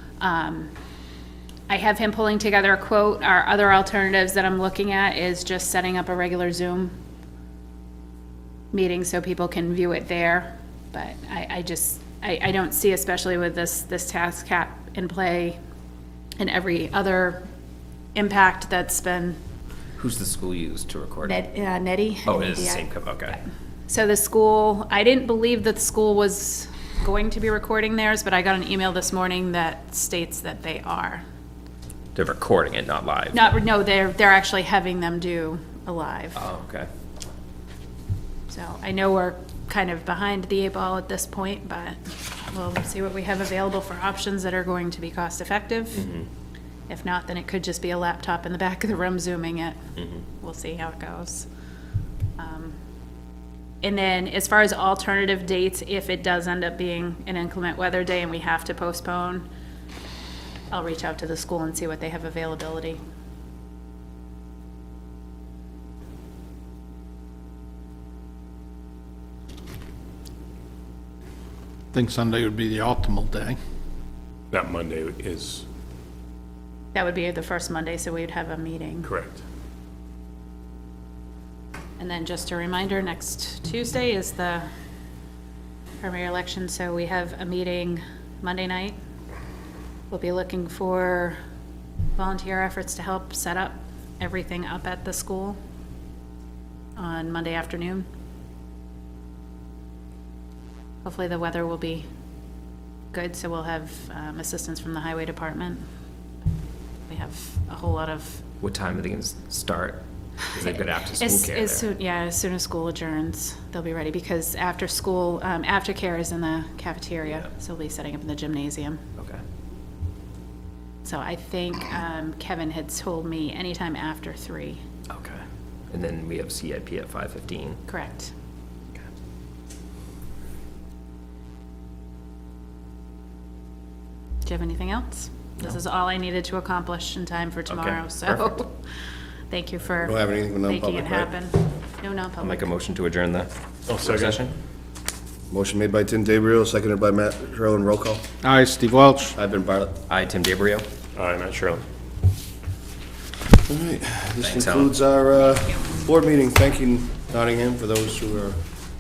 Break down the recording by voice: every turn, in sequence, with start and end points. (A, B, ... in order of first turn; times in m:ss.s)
0:00.2-0:00.7 A
0:01.7-0:06.9 A
0:08.7-0:15.6 A
0:16.4-0:17.4 A
0:18.2-0:19.4 A
0:20.0-0:21.4 B
0:21.2-0:31.2 A
0:22.2-0:23.4 B
0:32.2-0:33.5 B
0:33.3-0:36.4 A
0:36.4-0:36.9 B
0:38.5-0:46.1 A
0:46.9-0:51.5 A
0:52.4-0:52.8 A
0:53.8-0:59.4 A
1:00.7-1:03.0 A
1:11.9-1:13.6 C
1:14.5-1:15.6 D
1:16.9-1:19.1 A
1:19.0-1:19.4 D
1:22.0-1:24.7 A
1:26.0-1:29.0 A
1:30.1-1:31.4 A
1:32.2-1:35.6 A
1:37.0-1:38.1 A
1:41.0-1:42.1 A
1:43.1-1:45.8 A
1:47.1-1:48.4 A
1:48.6-1:51.9 B
1:50.6-1:59.0 A
1:59.2-1:59.4 B
2:01.0-2:04.8 A
2:05.1-2:07.8 B
2:07.9-2:08.3 A
2:14.4-2:18.8 A
2:17.7-2:18.6 B
2:19.5-2:22.7 A
2:20.0-2:21.3 E
2:22.4-2:23.5 B
2:23.9-2:24.4 D
2:24.0-2:24.5 B
2:25.5-2:28.2 E
2:28.4-2:29.4 C
2:29.4-2:30.0 E
2:30.1-2:30.9 B
2:31.2-2:31.8 D
2:33.6-2:38.6 E
2:34.4-2:35.0 B